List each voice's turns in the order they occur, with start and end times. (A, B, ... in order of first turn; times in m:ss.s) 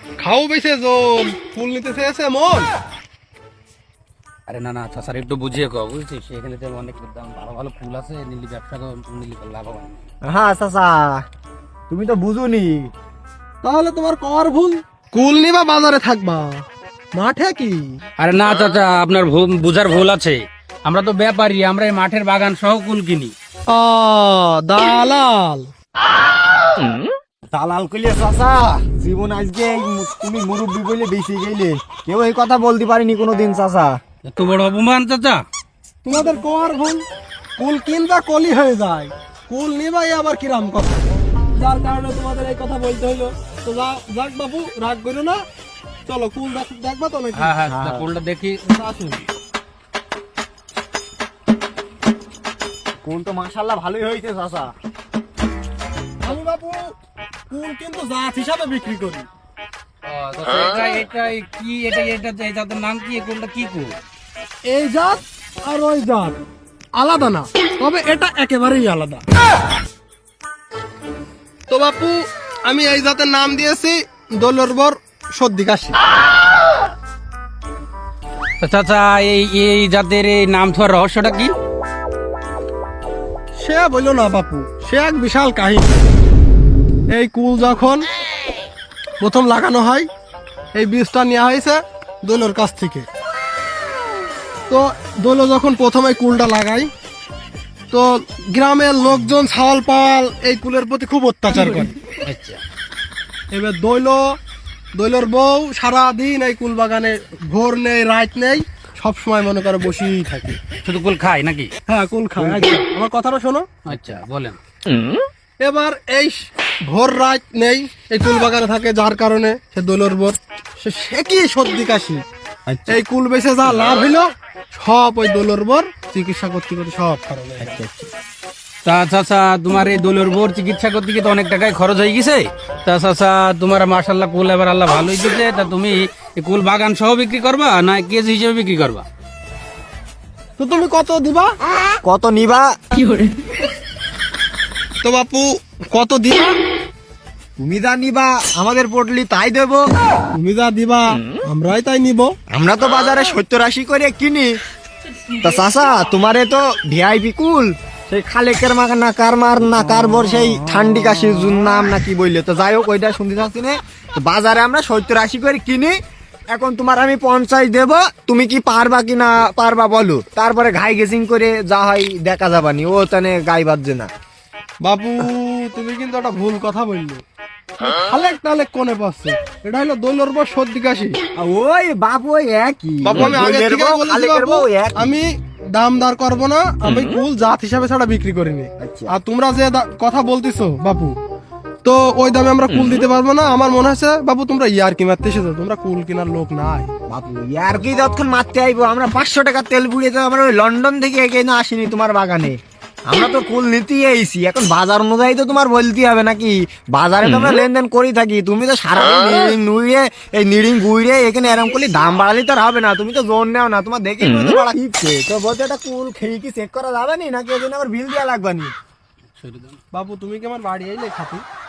0:00.2-0:02.7 A
0:04.5-0:10.0 B
0:10.2-0:11.2 C
0:11.9-0:12.9 C
0:13.6-0:16.6 A
0:17.1-0:18.0 A
0:18.2-0:23.3 B
0:23.7-0:25.7 A
0:27.5-0:34.0 C
0:34.3-0:35.4 B
0:36.0-0:37.0 A
0:37.6-0:45.4 A
0:46.0-0:47.6 A
0:47.3-0:48.6 B
0:47.7-0:48.1 C
0:48.6-0:49.3 A
0:53.0-0:54.7 C
0:56.2-0:56.9 A
0:57.5-0:59.3 A
1:00.0-1:04.0 B
1:04.6-1:06.4 A
1:07.0-1:09.2 A
1:11.7-1:16.0 A
1:18.6-1:21.5 B
1:23.6-1:25.9 A
1:27.1-1:28.1 A
1:29.2-1:30.1 A
1:30.7-1:33.1 A
1:34.7-1:36.9 A
1:37.9-1:42.0 A
1:41.7-1:42.6 B
1:43.5-1:44.4 A
1:44.9-1:50.6 A
1:50.8-1:51.7 B
1:51.9-1:53.7 A
1:52.4-1:52.8 C
1:53.8-1:54.6 B
1:55.6-2:02.2 A
2:02.7-2:03.0 C
2:02.9-2:07.8 A
2:03.7-2:04.0 B
2:07.6-2:08.1 C
2:08.8-2:19.0 B
2:20.6-2:21.5 A
2:22.0-2:22.7 C
2:25.0-2:26.6 A
2:27.6-2:29.9 C
2:30.3-2:32.4 A
2:32.5-2:34.6 C
2:35.4-2:45.9 C
2:46.5-2:54.1 C
2:54.8-2:57.2 A
2:57.8-3:01.2 A
3:01.4-3:05.1 C
3:03.0-3:11.2 A
3:06.8-3:07.2 B
3:08.8-3:09.1 C
3:11.8-3:16.9 A
3:17.1-3:38.7 C
3:39.3-3:39.8 B
3:39.9-3:41.4 A